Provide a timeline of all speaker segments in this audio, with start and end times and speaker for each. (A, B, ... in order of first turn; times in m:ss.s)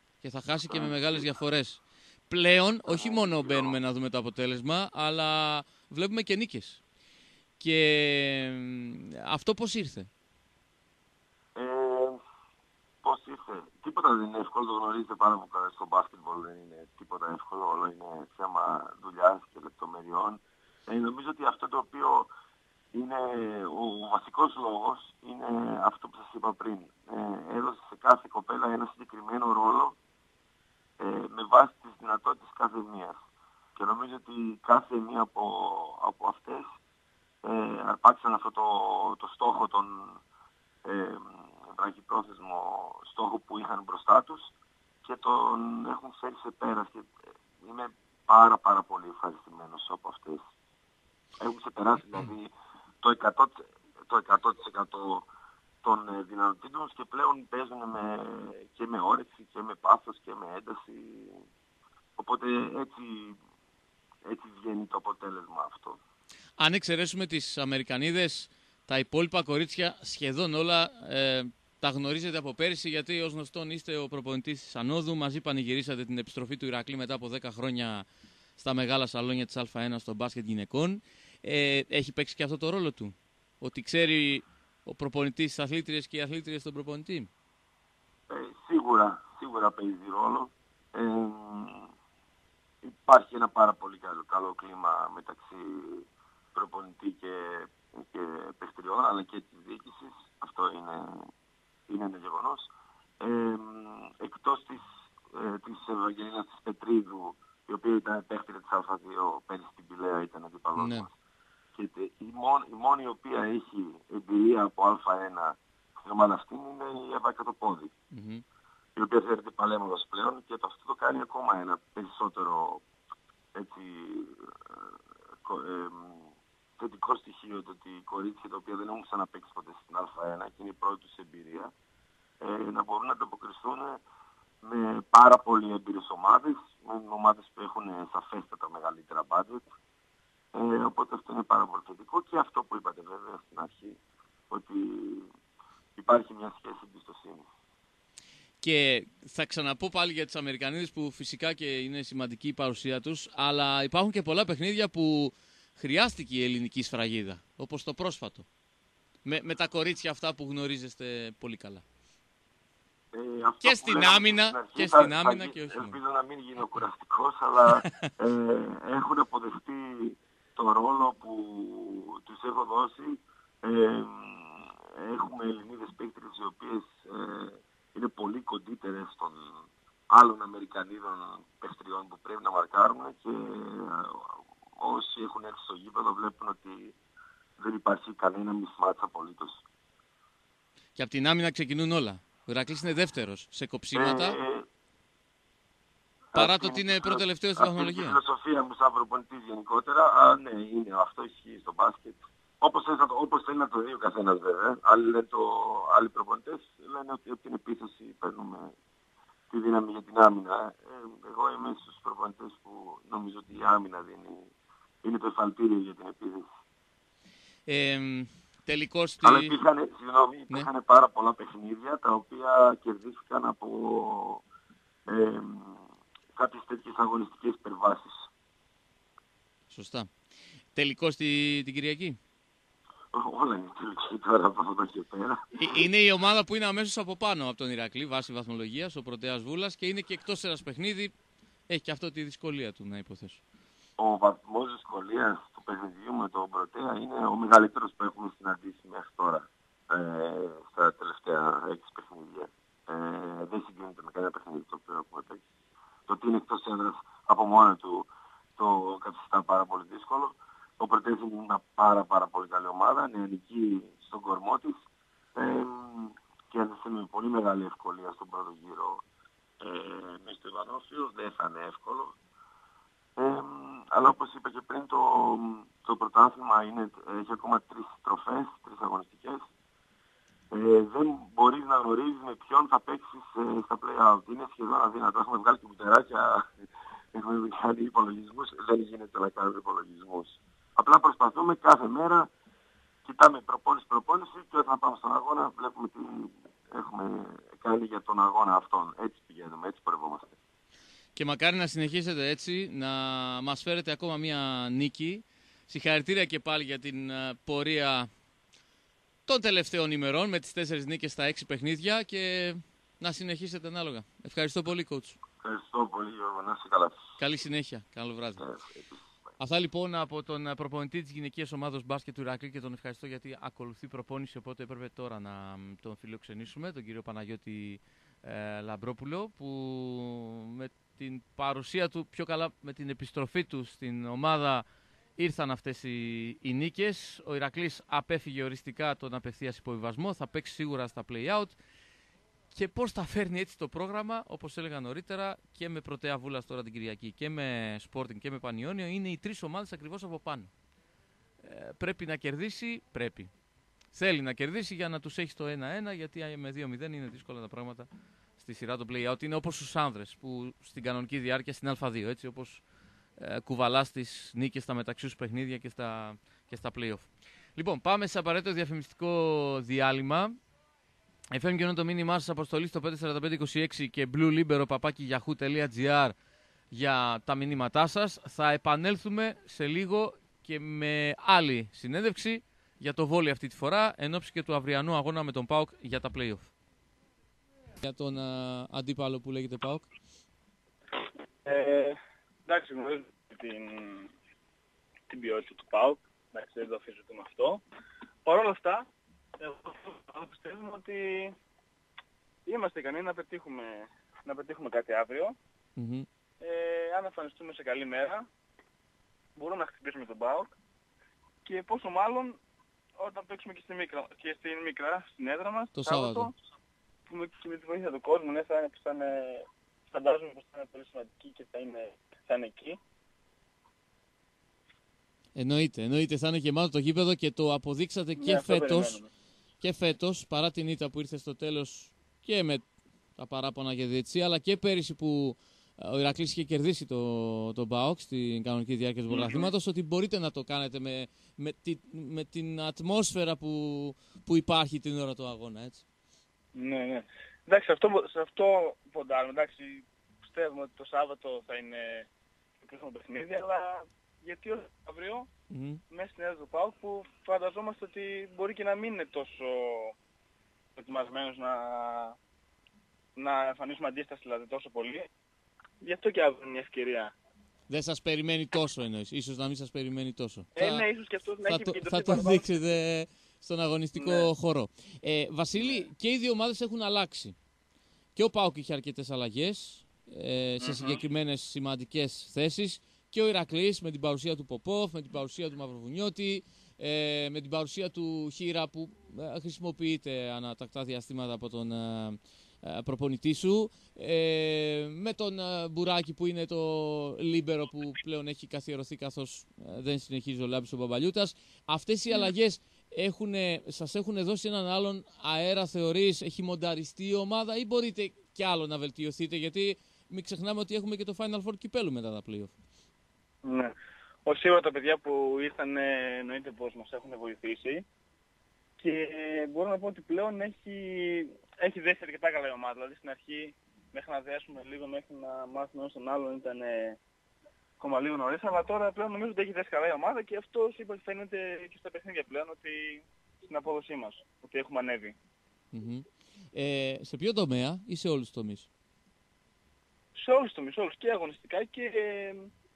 0:00.2-0:06.8 A
0:00.7-0:01.3 B
0:02.9-0:03.8 B
0:07.6-0:10.1 A
0:11.6-0:12.2 B
0:13.0-0:22.3 B
0:22.9-0:30.0 B
0:31.0-0:33.2 B
0:33.8-0:36.7 B
0:37.4-0:40.2 B
0:40.8-0:44.5 B
0:45.0-0:50.4 B
0:51.4-0:52.5 B
0:53.0-0:55.3 B
0:55.8-1:01.5 B
1:02.2-1:03.4 B
1:04.2-1:06.0 B
1:06.6-1:27.3 A
1:28.3-1:31.9 B
1:32.8-1:41.3 B
1:41.9-1:42.7 B
1:43.2-1:51.2 B
1:50.8-1:51.1 A
1:51.8-1:57.9 B
1:58.1-1:58.4 A
1:59.0-2:02.8 B
2:03.5-2:11.7 B
2:12.4-2:14.0 B
2:14.6-2:19.7 B
2:20.5-2:24.0 B
2:24.5-2:25.3 B
2:26.0-2:27.5 B
2:28.6-2:38.5 A
2:39.2-2:41.8 A
2:43.1-3:07.0 B
2:43.6-2:46.0 A
2:47.8-2:48.1 A
3:07.6-3:09.6 B
3:11.0-3:14.4 A
3:14.0-3:14.7 B
3:16.3-3:28.7 B
3:16.4-3:18.2 A
3:29.5-3:34.5 B
3:35.0-3:36.5 B
3:37.7-3:39.6 A
3:39.2-3:44.4 B
3:45.1-3:45.8 B
3:46.4-3:48.3 B
3:49.7-3:50.1 A
3:50.8-3:52.2 A
3:53.1-3:55.8 B
3:55.5-4:01.1 A
4:01.7-4:03.4 A
4:04.0-4:15.4 B
4:16.1-4:24.8 B
4:25.4-4:29.0 B
4:29.6-4:32.2 B
4:33.2-4:39.4 B
4:40.5-4:46.5 B
4:47.1-4:52.3 B
4:53.0-5:00.4 B
5:01.2-5:08.1 A
5:09.3-5:15.2 A
5:15.4-5:17.0 B
5:17.2-5:18.4 A
5:18.4-5:19.0 B
5:19.4-5:34.6 A
5:35.2-5:41.6 A
5:42.5-5:50.5 A
5:51.4-5:53.3 A
5:53.9-6:02.6 A
6:03.2-6:10.4 A
6:11.3-6:16.2 A
6:16.7-6:26.5 A
6:27.8-6:29.9 A
6:31.4-6:34.1 C
6:35.1-6:37.6 C
6:38.2-6:38.9 C
6:39.4-6:41.4 C
6:42.5-6:45.4 C
6:45.8-6:46.1 A
6:46.4-6:48.3 C
6:49.4-6:50.5 C
6:51.4-6:52.4 C
6:53.0-6:56.4 C
6:55.8-6:56.3 A
6:57.1-7:02.8 C
7:05.4-7:09.0 A
7:08.2-7:09.1 C
7:09.6-7:12.6 A
7:13.2-7:25.8 A
7:19.1-7:19.5 C
7:26.6-7:32.1 C
7:32.6-7:35.3 C
7:35.5-7:35.8 A
7:35.9-7:40.0 C
7:40.8-7:42.2 C
7:43.2-7:45.1 C
7:45.8-7:47.1 C
7:47.7-7:50.8 A
7:50.6-7:52.6 C
7:51.5-7:57.4 A
7:54.0-7:54.3 C
7:55.6-7:55.9 C
7:58.2-8:32.5 A
8:00.6-8:01.0 C
8:33.4-8:33.7 C
8:34.2-8:37.8 C
8:38.8-8:47.0 C
8:47.8-8:55.2 C
8:55.7-8:58.7 A
9:00.2-9:02.5 C